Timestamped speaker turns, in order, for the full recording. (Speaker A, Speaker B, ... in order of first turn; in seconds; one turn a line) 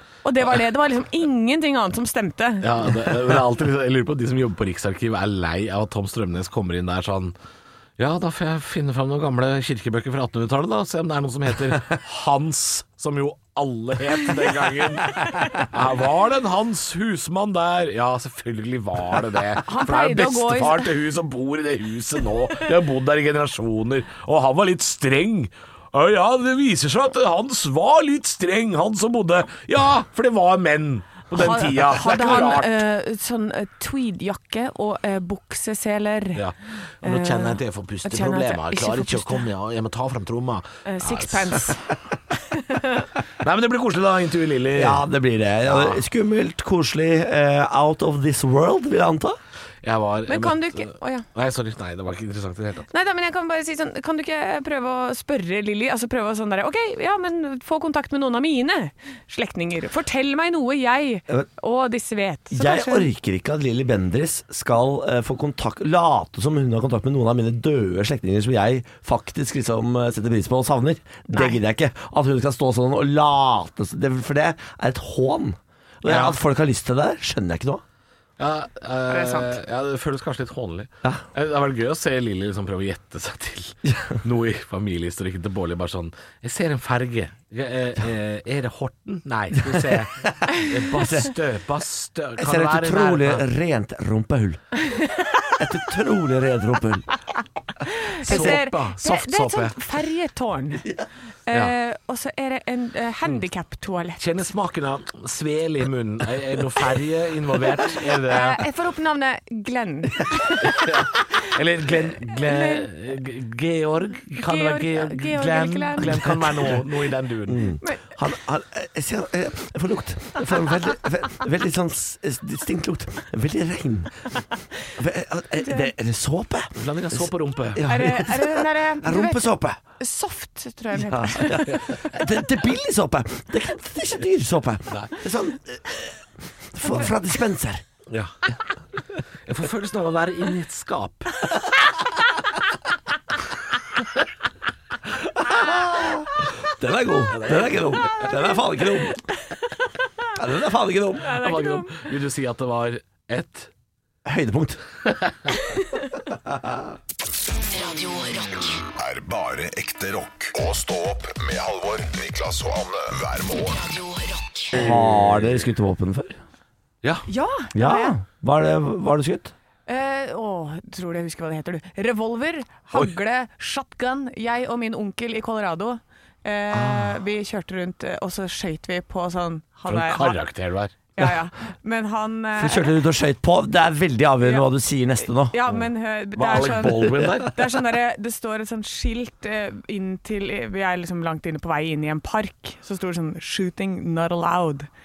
Speaker A: 0.2-2.9
Speaker B: 2.6-7.3
Speaker B: 8.0-32.8
Speaker A: 19.6-20.9
Speaker A: 31.3-36.4
Speaker B: 36.3-41.7
Speaker A: 37.0-39.4
Speaker A: 40.9-41.8
Speaker A: 42.5-43.1
Speaker B: 43.4-45.0
Speaker C: 44.7-49.4
Speaker B: 45.6-46.0
Speaker B: 49.8-52.9
Speaker A: 50.3-51.2
Speaker A: 52.9-63.1
Speaker C: 62.5-77.8
Speaker B: 76.0-76.4
Speaker B: 78.4-93.4
Speaker A: 79.1-79.5
Speaker C: 89.6-90.0
Speaker C: 90.9-91.3
Speaker C: 92.4-94.6
Speaker A: 94.8-95.6
Speaker C: 95.6-97.0
Speaker A: 97.8-100.8
Speaker B: 98.2-99.8
Speaker C: 98.3-98.6
Speaker A: 101.5-104.2
Speaker B: 104.2-108.6
Speaker A: 108.3-111.5
Speaker B: 110.6-117.8
Speaker A: 112.3-112.9
Speaker A: 114.3-116.8
Speaker C: 117.5-124.4
Speaker A: 117.8-118.1
Speaker C: 124.9-129.8
Speaker A: 125.6-125.9
Speaker B: 126.8-127.9
Speaker A: 127.8-131.7
Speaker C: 130.9-137.8
Speaker B: 131.7-132.0
Speaker B: 138.1-138.3
Speaker B: 139.4-141.7
Speaker C: 145.1-149.2
Speaker B: 147.3-148.3
Speaker C: 150.3-151.3
Speaker A: 151.2-152.1
Speaker B: 151.3-153.7
Speaker C: 154.2-154.8
Speaker B: 155.1-155.4
Speaker A: 155.6-156.0
Speaker C: 156.5-156.8
Speaker D: 157.7-158.8
Speaker E: 158.9-163.8
Speaker D: 163.6-164.8
Speaker C: 164.7-166.4
Speaker A: 167.3-168.1
Speaker C: 167.7-169.5
Speaker A: 169.9-180.4
Speaker C: 176.7-177.2
Speaker B: 179.9-180.9
Speaker A: 181.2-182.9
Speaker C: 182.6-185.6
Speaker A: 185.2-194.9
Speaker B: 185.7-187.6